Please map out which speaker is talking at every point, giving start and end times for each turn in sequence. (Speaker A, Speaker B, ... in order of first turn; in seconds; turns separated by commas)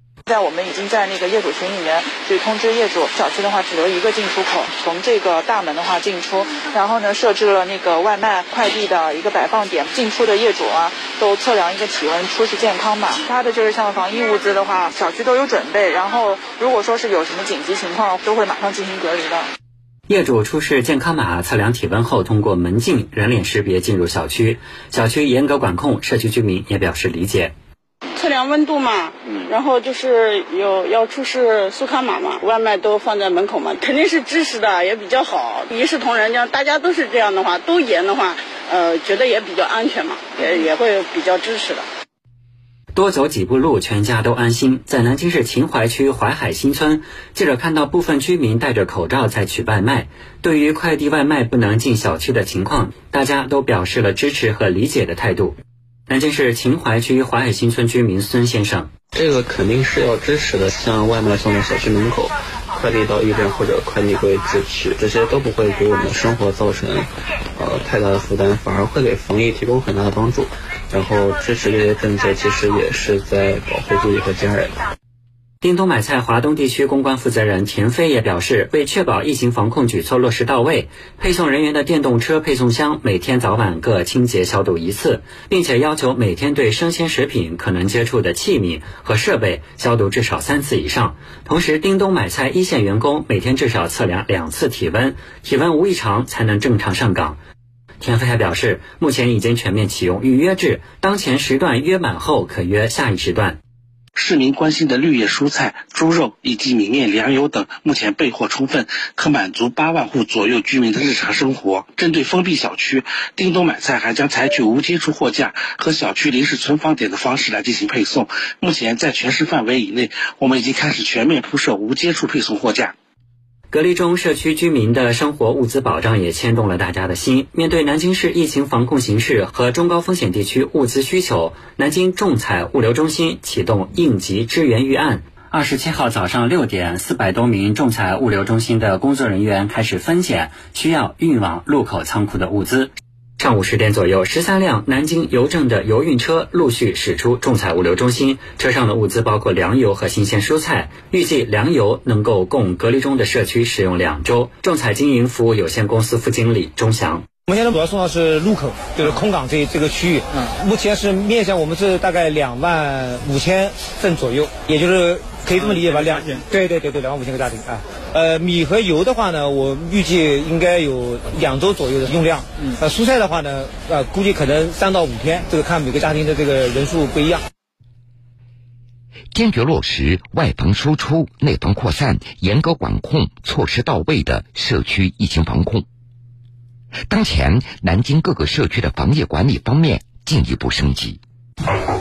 Speaker A: 0.2-19.5, Speaker B: 20.1-27.5, Speaker C: 28.2-41.9, Speaker B: 42.9-55.6, Speaker B: 56.1-58.9, Speaker D: 59.1-74.8, Speaker B: 75.6-97.4, Speaker B: 98.0-103.6, Speaker E: 104.2-123.0, Speaker B: 123.7-157.2, Speaker F: 157.5-177.5, Speaker G: 179.3-185.9, Speaker G: 187.1-191.2